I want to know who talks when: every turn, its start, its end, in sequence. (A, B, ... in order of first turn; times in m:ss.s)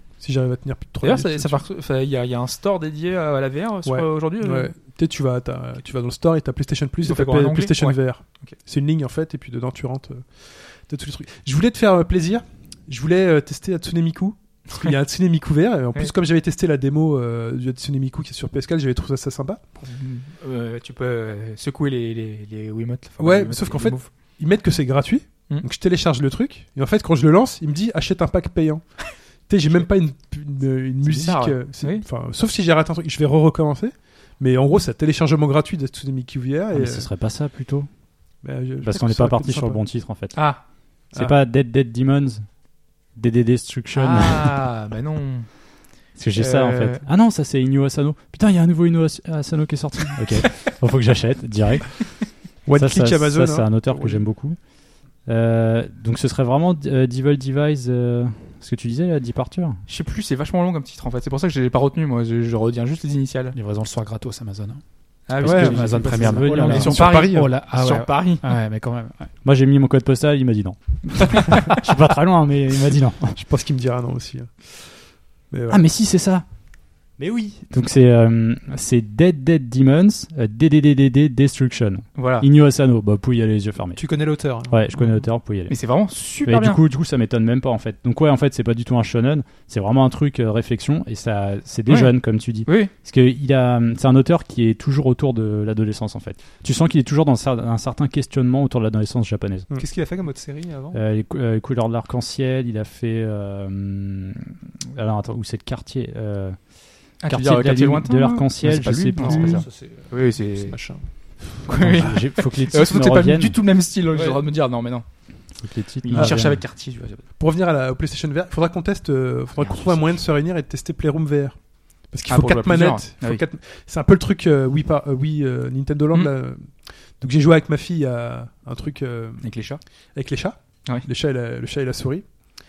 0:00.2-0:01.6 A
0:01.0-0:04.7 B
0:03.9-0:19.6 A
0:07.0-0:08.6 B
0:19.8-0:24.1 B
0:23.2-0:37.1 A
0:31.0-0:32.0 B
0:36.7-0:37.9 C
0:38.4-0:39.8 A
0:38.8-0:40.4 C
0:40.3-0:40.6 B
0:41.1-0:42.5 C
0:43.1-0:44.6 C
0:43.9-0:45.5 B
0:46.2-0:54.6 C
0:46.4-0:47.0 B
0:52.7-0:54.2 A
0:55.3-0:59.8 C
0:59.9-1:03.6 B
1:03.5-1:04.8 D
1:05.3-1:08.4 B
1:05.4-1:09.3 D
1:05.4-1:07.5 A
1:06.0-1:07.0 C
1:09.4-1:13.4 C
1:13.4-1:14.8 A
1:15.5-1:15.8 A
1:15.7-1:16.4 C
1:17.2-1:24.0 C
1:22.2-1:22.5 B
1:24.0-1:24.9 E
1:24.7-1:25.8 C
1:25.7-1:26.8 B
1:26.4-1:39.7 C
1:31.9-1:32.9 B
1:39.8-1:41.0 E
1:40.9-1:46.6 C
1:47.2-1:49.7 C
1:47.2-1:55.1 B
1:49.2-1:51.1 E
1:51.7-1:53.6 C
1:54.1-1:54.4 E
1:55.6-1:56.6 C
1:56.0-1:57.2 B
1:56.2-1:56.6 A
1:57.4-2:09.6 A
1:59.6-2:00.1 B
2:02.3-2:03.4 B
2:09.4-2:09.8 B
2:10.2-2:12.4 A